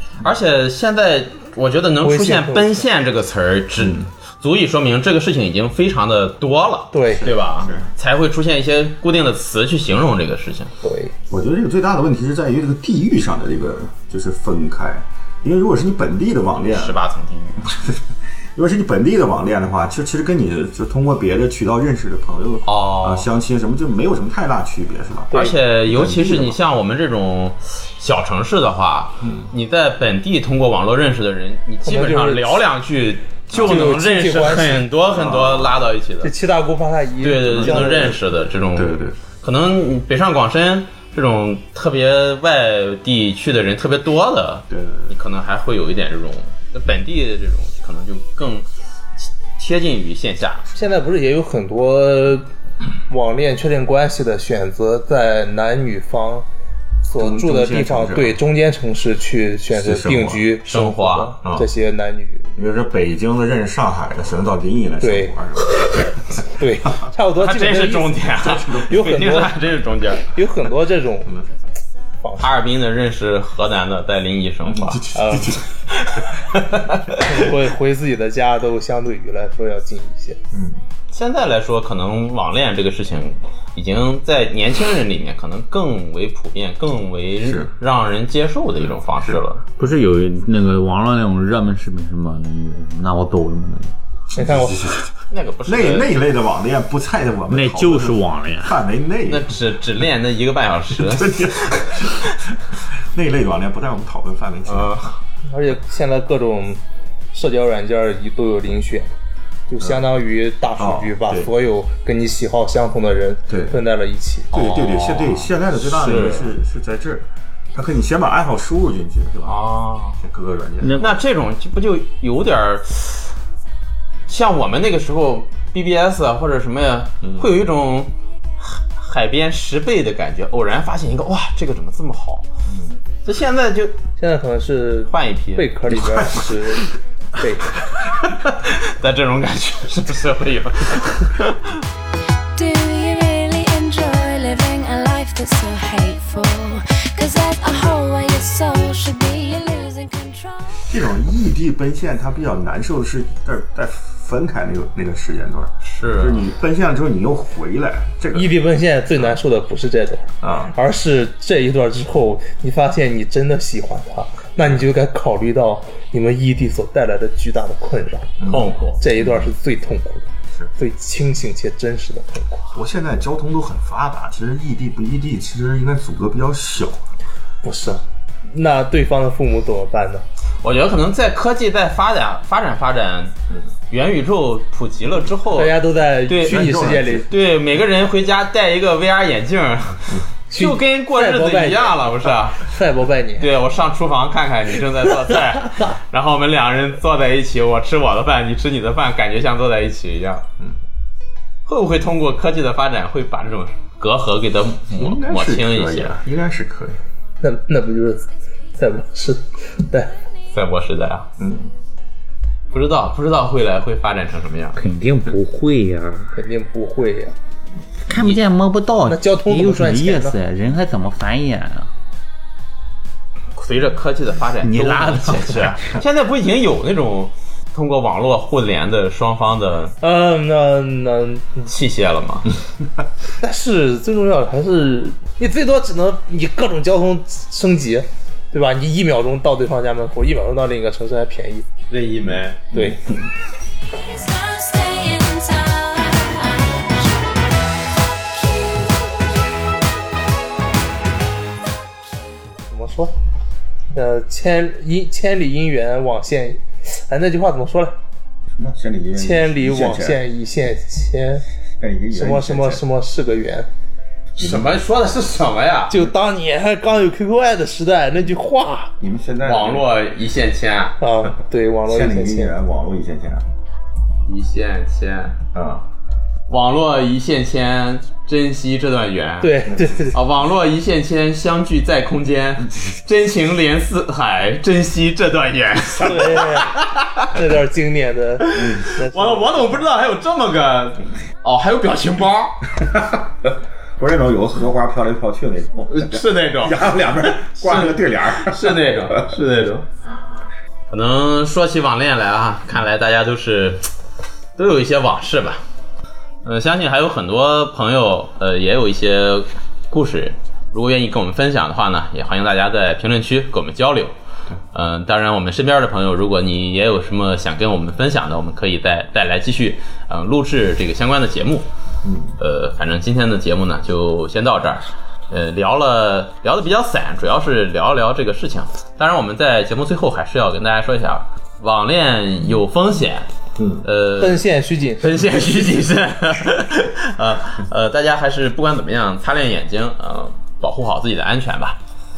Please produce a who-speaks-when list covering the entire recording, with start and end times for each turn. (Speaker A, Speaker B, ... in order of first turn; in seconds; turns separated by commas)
Speaker A: 0.2-10.7, Speaker B: 2.0-2.9, Speaker C: 3.8-4.1, Speaker B: 6.9-7.3, Speaker C: 7.2-7.9, Speaker B: 10.8-11.1, Speaker C: 11.3-17.0, Speaker A: 16.7-17.6, Speaker C: 17.6-18.0, Speaker C: 18.6-26.6, Speaker A: 22.6-23.3, Speaker A: 25.3-36.3, Speaker C: 29.2-29.5, Speaker B: 31.8-32.6, Speaker C: 33.5-33.9, Speaker B: 33.6-34.8, Speaker C: 35.1-35.9, Speaker B: 36.2-38.2, Speaker A: 37.2-48.7, Speaker C: 37.5-38.2, Speaker C: 38.8-39.1, Speaker C: 44.7-45.1, Speaker A: 49.2-50.7, Speaker B: 50.7-52.5, Speaker B: 53.1-56.5, Speaker B: 57.0-62.5, Speaker C: 57.2-58.4, Speaker C: 59.7-60.5, Speaker A: 60.6-61.4, Speaker C: 61.4-61.7, Speaker C: 62.6-66.4, Speaker B: 65.0-65.4, Speaker B: 66.4-68.3, Speaker A: 67.4-70.2, Speaker C: 68.4-69.1, Speaker B: 68.8-69.6, Speaker B: 70.3-71.3, Speaker B: 72.2-72.5, Speaker A: 72.4-75.1, Speaker C: 74.7-75.8, Speaker B: 75.1-75.6, Speaker A: 75.9-77.2, Speaker B: 77.1-80.4, Speaker C: 80.5-80.8, Speaker A: 81.1-89.6, Speaker C: 87.4-87.7, Speaker D: 89.8-93.9, Speaker C: 94.3-99.5, Speaker B: 94.3-94.9, Speaker A: 95.3-96.2, Speaker D: 97.5-98.8, Speaker A: 99.3-101.5, Speaker C: 101.0-105.1, Speaker A: 104.7-105.2, Speaker B: 105.4-106.8, Speaker B: 107.3-109.1, Speaker B: 109.7-114.5, Speaker C: 110.8-111.5, Speaker C: 113.5-113.8, Speaker C: 114.5-119.6, Speaker A: 114.5-116.5, Speaker A: 119.5-120.2, Speaker C: 120.2-121.1, Speaker D: 120.8-121.2, Speaker A: 121.0-123.3, Speaker A: 124.3-132.5, Speaker C: 127.2-127.5, Speaker C: 132.7-133.0, Speaker A: 133.2-134.0, Speaker B: 134.2-137.8, Speaker A: 135.1-135.7, Speaker A: 138.3-141.8, Speaker E: 142.6-150.8, Speaker C: 150.8-158.6, Speaker A: 155.8-156.5, Speaker B: 158.3-168.3, Speaker C: 160.4-160.7, Speaker C: 168.4-169.4, Speaker A: 168.5-169.0, Speaker B: 169.0-172.7, Speaker C: 172.7-177.0, Speaker B: 177.6-180.2, Speaker A: 180.6-183.3, Speaker A: 183.9-192.7, Speaker B: 185.5-187.3, Speaker C: 186.3-187.3, Speaker B: 190.5-192.1, Speaker B: 192.6-193.5, Speaker A: 193.4-200.4, Speaker A: 201.7-206.2, Speaker C: 204.9-207.0, Speaker B: 207.4-210.1, Speaker A: 210.5-211.3, Speaker C: 211.4-211.7, Speaker A: 212.7-214.8, Speaker D: 214.8-216.3, Speaker B: 216.3-217.3, Speaker D: 218.1-221.9, Speaker B: 219.0-220.4, Speaker A: 223.6-230.0, Speaker D: 224.6-225.8, Speaker B: 230.0-231.7, Speaker A: 231.6-232.5, Speaker B: 233.4-241.7, Speaker A: 241.9-242.6, Speaker B: 242.7-243.0, Speaker E: 243.9-249.4, Speaker B: 252.7-253.1, Speaker B: 253.9-257.9, Speaker C: 258.6-260.2, Speaker B: 259.2-261.4, Speaker C: 261.8-262.8, Speaker B: 262.1-263.7, Speaker A: 264.4-266.0, Speaker C: 264.4-264.7, Speaker B: 265.9-268.9, Speaker C: 269.0-269.9, Speaker A: 269.4-271.0, Speaker B: 271.0-272.5, Speaker C: 271.9-273.5, Speaker A: 274.2-275.4, Speaker C: 275.5-275.8, Speaker A: 276.5-287.3, Speaker B: 279.4-280.2, Speaker C: 279.7-280.0, Speaker B: 286.0-286.7, Speaker B: 287.3-289.9, Speaker A: 288.4-292.7, Speaker C: 292.8-293.2, Speaker C: 294.0-299.3, Speaker A: 295.9-299.9, Speaker A: 300.9-303.9, Speaker A: 304.6-305.6, Speaker A: 306.4-314.1, Speaker A: 314.7-321.7, Speaker C: 322.0-322.4, Speaker A: 322.4-333.3, Speaker C: 333.6-333.9, Speaker A: 333.8-334.4, Speaker B: 334.2-335.2, Speaker A: 335.0-341.8